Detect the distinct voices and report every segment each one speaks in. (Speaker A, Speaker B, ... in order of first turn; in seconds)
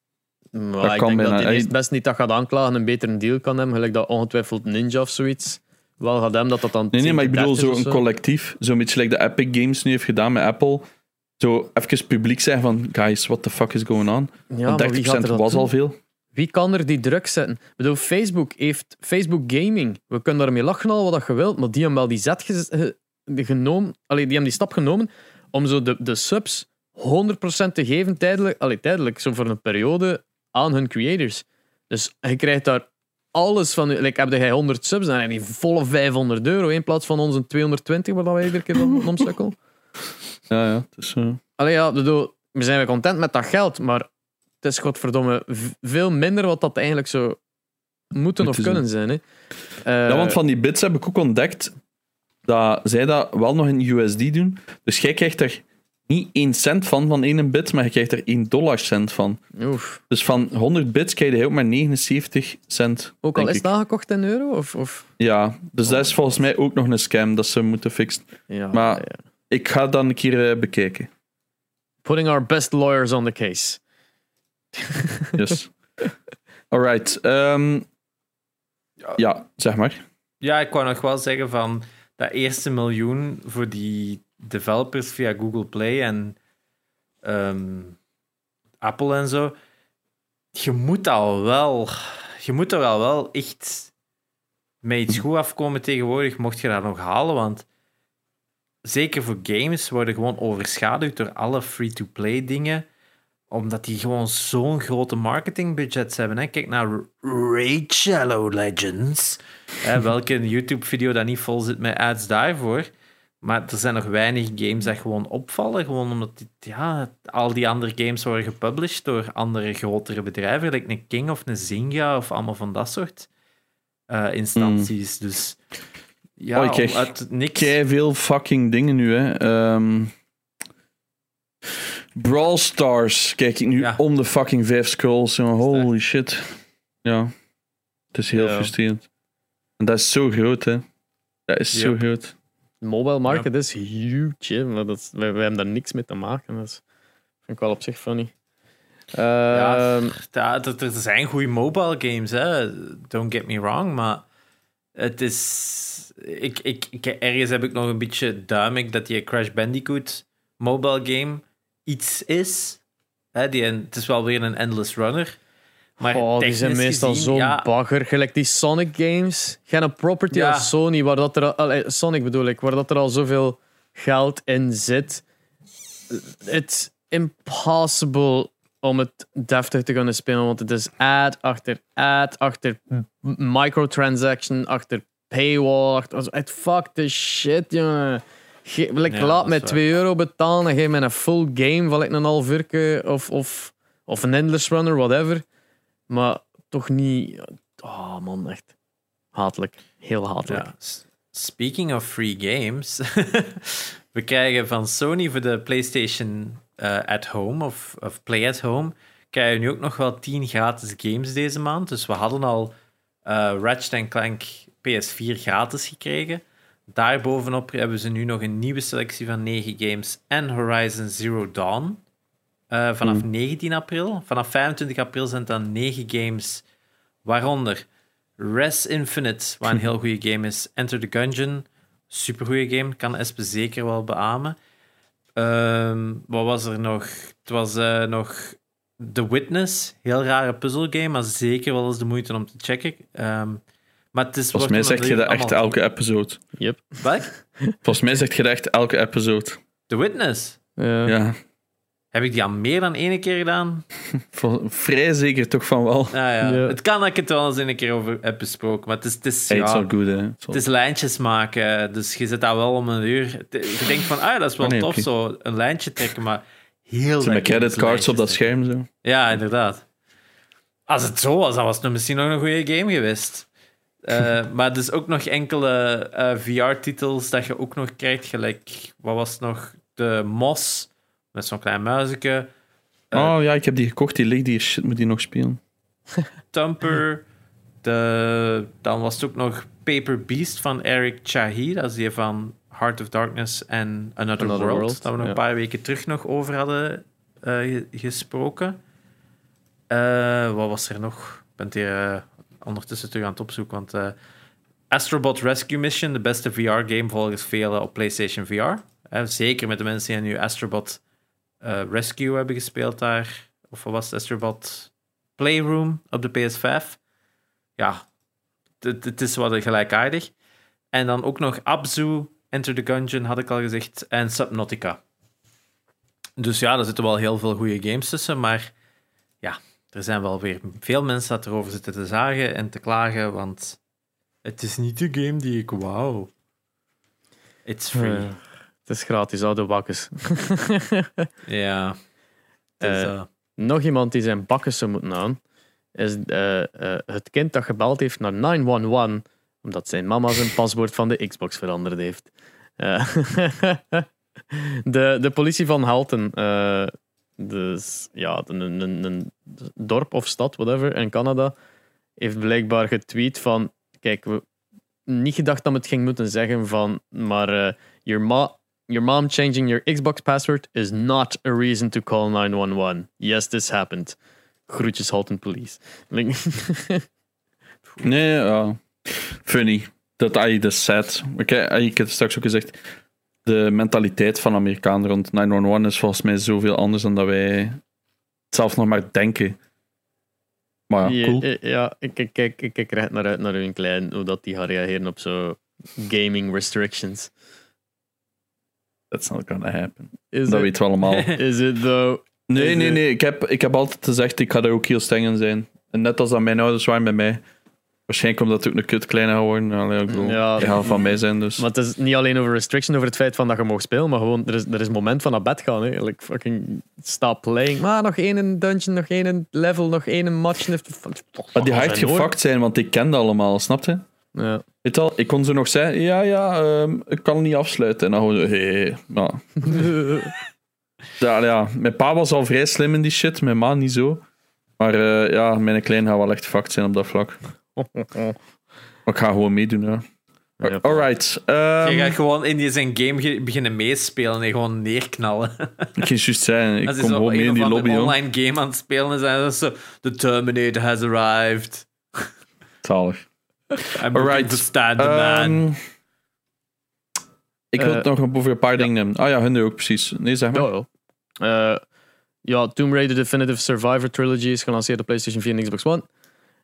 Speaker A: 0.5-8.0, 14.5-15.7, 16.4-39.6, 41.6-44.1, 44.6-47.4, 48.1-49.2, 49.8-50.4, 59.6-60.0, 63.2-65.1, 68.5-69.2, 72.0-73.8, 74.8-75.5, 138.3-138.7, 142.8-146.8, 147.5-148.3, 149.1-150.2, 166.1-175.2, 176.1-195.4, 196.1-198.7, 199.3-200.7, 246.6-247.8, 250.8-251.2, 256.4-256.8, 294.4-295.4, 337.9-341.3, 342.8-345.4, 346.0-361.5, 362.2-364.4, 365.1-374.2, 374.7-377.1, 391.0-397.3, 400.3-403.0, 410.1-411.1, 411.6-422.3, 424.3-424.6, 429.7-430.3, 437.8-438.4, 440.6-441.0, 457.8-458.1, 460.5-460.9, 461.4-461.8, 462.4-466.1
Speaker B: 0.8-1.7, 6.9-10.8, 11.4-16.0, 40.5-41.4, 48.4-48.8, 50.1-51.7, 52.5-59.5, 60.1-63.7, 65.2-71.1, 75.4-75.7, 76.7-77.9, 79.2-80.0, 124.6-124.9, 126.5-130.1, 132.2-137.3, 138.1-139.1, 139.8-140.8, 141.5-142.3, 244.5-246.4, 247.8-249.6, 251.1-251.4, 254.2-256.1, 259.5-260.6, 264.6-265.1, 267.2-268.9, 283.1-285.6, 378.0-382.8, 383.4-387.8, 388.5-389.6, 390.9-391.5, 399.1-401.4, 402.5-407.4, 408.1-411.6, 421.6-424.0, 424.8-429.9, 431.2-434.2, 434.8-437.4, 439.1-440.0, 440.6-442.2, 446.0-448.2, 452.8-453.3, 454.1-455.8, 457.7-460.7
Speaker C: 80.4-86.4, 87.2-88.0, 88.8-89.5, 90.5-93.9, 94.8-97.7, 98.8-102.8, 103.5-112.9, 113.4-123.3, 124.1-125.6, 126.4-127.8, 141.7-142.0, 149.5-154.2, 155.0-162.8, 163.3-165.4, 166.0-167.7, 170.3-170.7, 189.1-189.8, 200.5-212.8, 213.3-222.0, 222.7-226.6, 227.2-227.9, 228.4-234.6, 235.4-243.6, 244.1-245.7, 247.0-247.3, 249.9-250.6, 252.1-253.9, 256.1-259.9, 260.5-268.5, 269.0-269.9, 270.9-273.5, 274.0-282.5, 286.5-287.3, 287.8-298.8, 299.9-304.1, 304.9-311.0, 311.6-317.0, 317.8-318.0, 318.8-320.3, 320.9-325.0, 326.4-328.7, 329.4-333.8, 334.4-336.3, 337.6-338.3, 341.5-342.0, 342.8-343.3, 441.8-446.0, 446.9-452.3, 453.9-455.6